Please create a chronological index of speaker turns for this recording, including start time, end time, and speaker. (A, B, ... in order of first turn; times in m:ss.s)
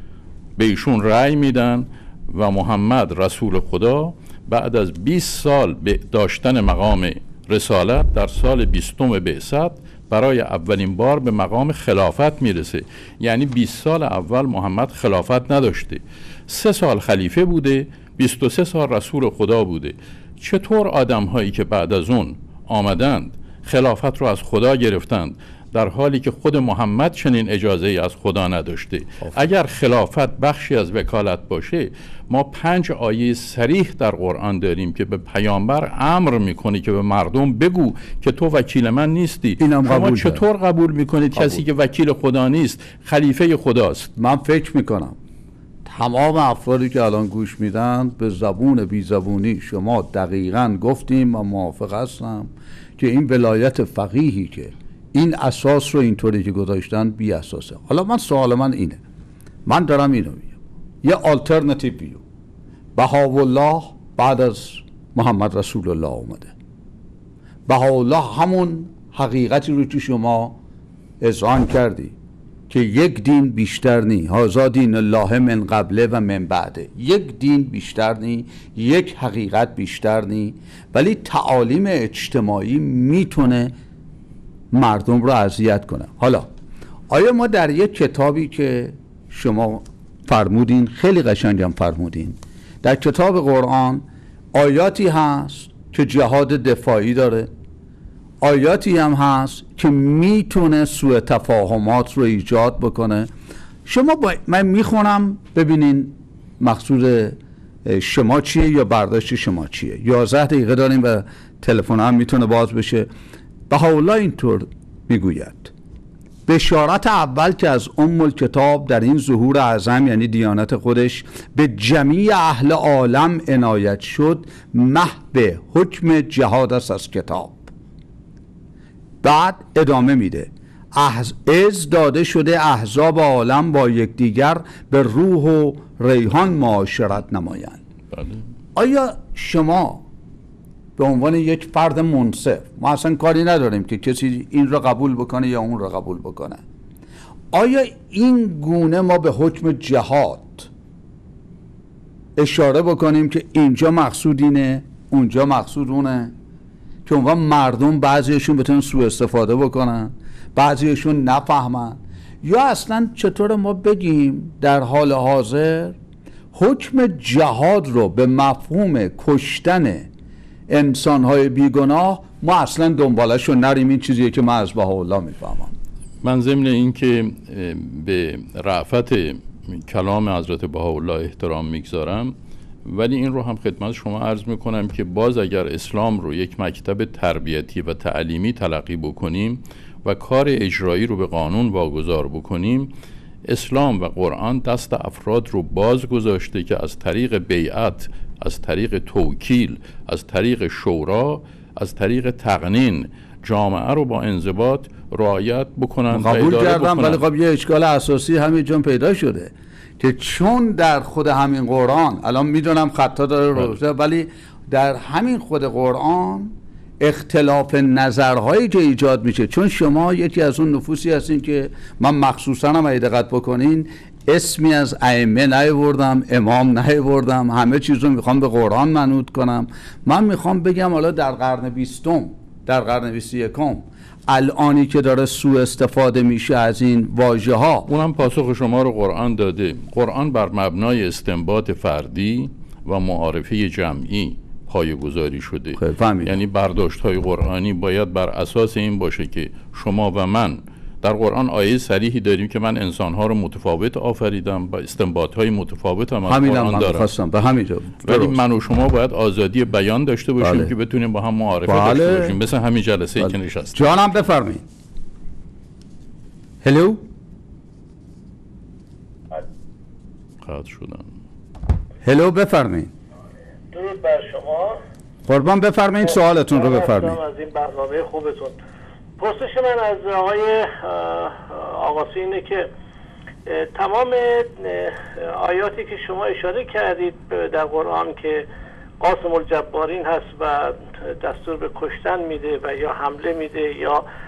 0:00.6-0:44.1 A
0:39.6-0:40.4 B
0:44.2-0:45.2 B
0:45.8-0:59.0 B
0:59.6-1:02.2 B
1:03.0-1:06.5 B
1:07.7-1:10.6 B
1:11.2-1:12.1 B
1:12.7-1:23.7 B
1:24.7-1:26.5 B
1:27.1-1:37.5 B
1:38.4-1:43.3 B
1:43.8-1:53.1 B
1:53.7-1:55.7 B
1:56.5-2:07.7 B
2:09.2-2:17.8 B
2:18.1-2:18.4 A
2:18.8-2:20.0 B
2:21.0-2:26.6 B
2:27.5-2:30.7 B
2:32.4-2:36.3 B
2:37.0-2:46.0 B
2:46.5-2:50.1 B
2:50.7-2:55.7 B
2:56.2-3:12.9 A
3:13.4-3:27.2 A
3:26.1-3:57.9 B
3:57.9-4:17.1 A
4:05.8-4:06.4 B
4:16.3-4:18.4 B
4:18.0-4:24.1 A
4:20.4-4:20.7 B
4:21.7-4:22.4 B
4:23.7-4:24.6 B
4:26.6-4:27.0 B
4:30.4-4:31.1 A
4:32.0-4:32.9 B
4:33.7-4:34.8 C
4:35.3-4:37.2 B
4:36.0-4:38.6 C
4:39.2-4:42.7 C
4:43.4-4:48.4 C
4:49.0-4:54.0 C